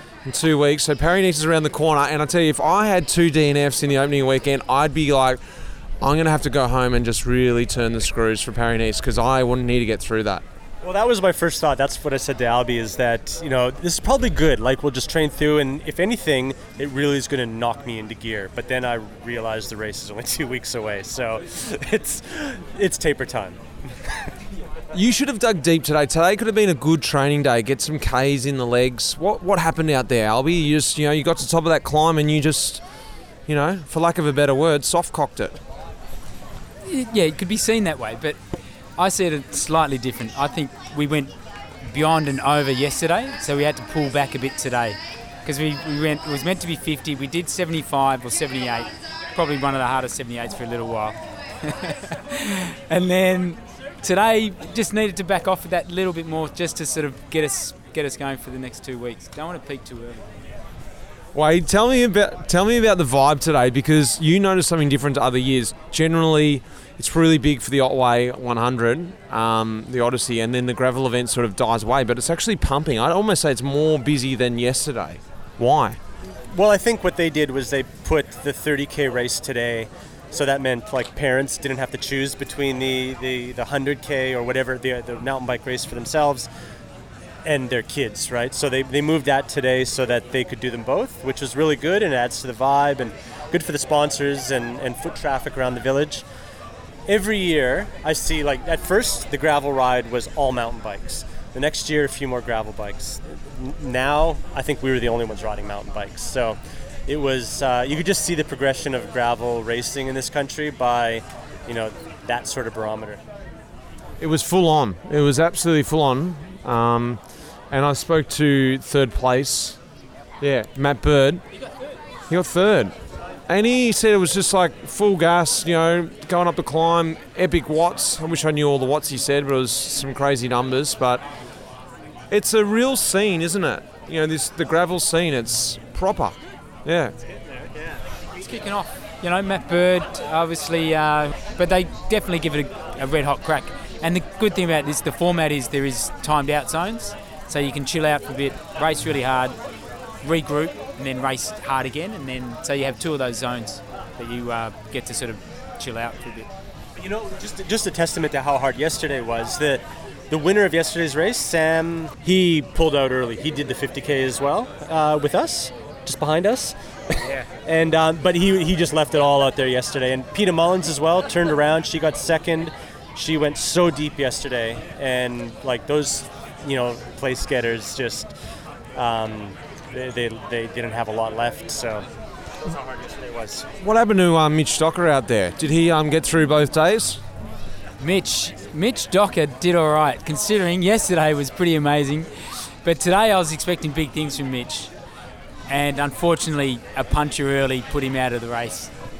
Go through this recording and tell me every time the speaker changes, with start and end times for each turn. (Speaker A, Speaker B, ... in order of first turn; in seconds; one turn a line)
Speaker A: 0.2-5.4
Speaker A: 6.0-10.4
Speaker B: 10.8-23.6
Speaker A: 24.9-32.8
Speaker A: 33.5-35.6
Speaker C: 36.8-60.3
Speaker A: 61.3-76.0
Speaker B: 76.5-86.5
Speaker B: 87.4-96.2
Speaker B: 97.1-113.2
Speaker A: 114.2-119.8
Speaker A: 120.4-121.4
Speaker A: 122.3-122.9
Speaker A: 123.5-131.2
Speaker A: 132.3-137.1
Speaker C: 138.4-149.6
Speaker C: 150.2-156.5
Speaker B: 157.0-178.3
Speaker B: 178.9-182.1
Speaker B: 182.6-183.7
Speaker A: 183.8-187.2
Speaker C: 188.0-194.9
Speaker C: 195.7-198.9